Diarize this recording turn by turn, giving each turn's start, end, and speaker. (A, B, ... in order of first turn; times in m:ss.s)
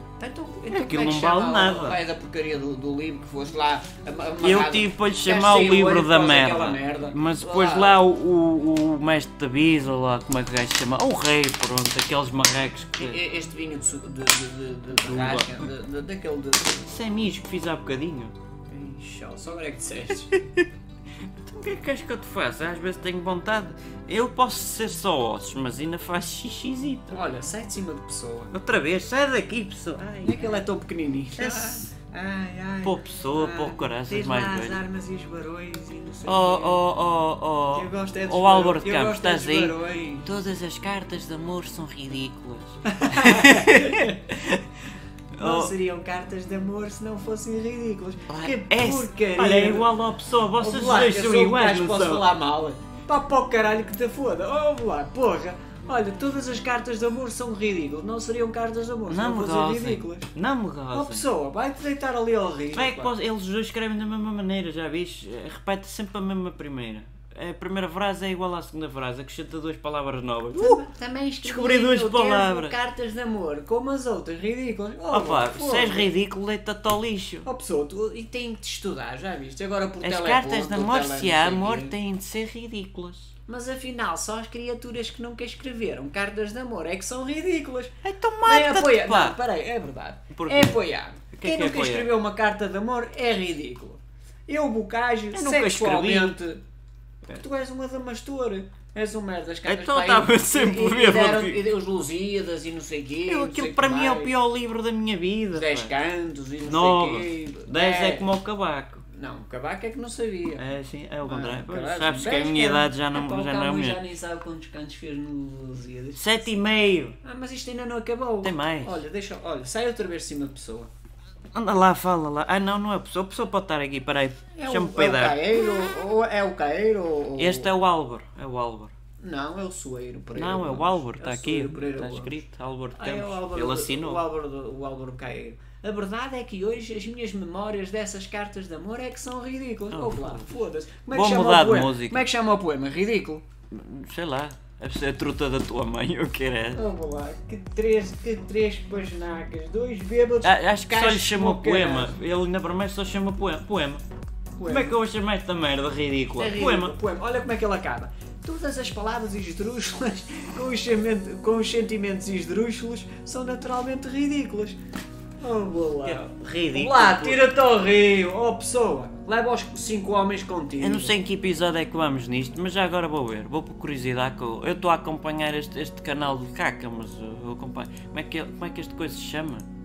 0:00.2-0:08.0 A
0:00.7-0:02.0 B
0:04.4-0:13.2 B
0:13.0-0:16.9 A
0:14.9-0:15.7 B
0:16.8-0:18.3 B
0:18.7-0:20.3 A
0:20.3-0:20.6 B
0:21.4-0:27.2 B
0:27.1-0:28.5 A
0:28.5-0:30.6 B
0:30.2-0:36.8 A
0:31.4-0:31.9 B
0:32.8-0:34.8 B
0:36.2-0:44.6 B
0:37.7-0:40.4 A
0:42.8-0:44.2 A
0:45.3-0:45.7 B
0:45.4-0:49.9 A
0:48.3-0:52.2 B
0:50.6-1:00.3 A
0:59.1-1:01.3 B
1:00.9-1:03.1 A
1:02.7-1:10.8 B
1:10.6-1:16.1 A
1:11.4-1:12.8 B
1:15.1-1:17.5 B
1:17.4-1:22.0 A
1:20.0-1:23.3 B
1:23.5-1:36.6 A
1:28.0-1:29.4 B
1:30.3-1:30.8 B
1:31.3-1:32.1 B
1:35.3-1:36.4 B
1:37.3-1:44.3 A
1:39.6-1:41.6 B
1:43.3-1:45.9 B
1:45.5-1:48.3 A
1:46.6-1:49.0 B
1:49.1-1:50.6 A
1:50.6-1:54.0 B
1:51.2-1:56.5 A
1:56.2-1:57.2 B
1:57.2-2:00.9 A
1:58.4-1:59.0 B
2:01.5-2:05.4 B
2:04.5-2:07.7 A
2:07.4-2:08.9 B
2:09.2-2:12.4 A
2:10.3-2:14.2 B
2:12.9-2:23.4 A
2:19.9-2:20.5 B
2:21.1-2:22.2 B
2:23.7-2:26.8 B
2:26.7-2:32.2 A
2:30.4-2:34.0 B
2:34.6-2:35.0 A
2:34.6-2:37.0 B
2:36.3-2:44.8 A
2:45.4-2:51.2 A
2:46.0-2:47.5 B
2:50.8-2:59.6 B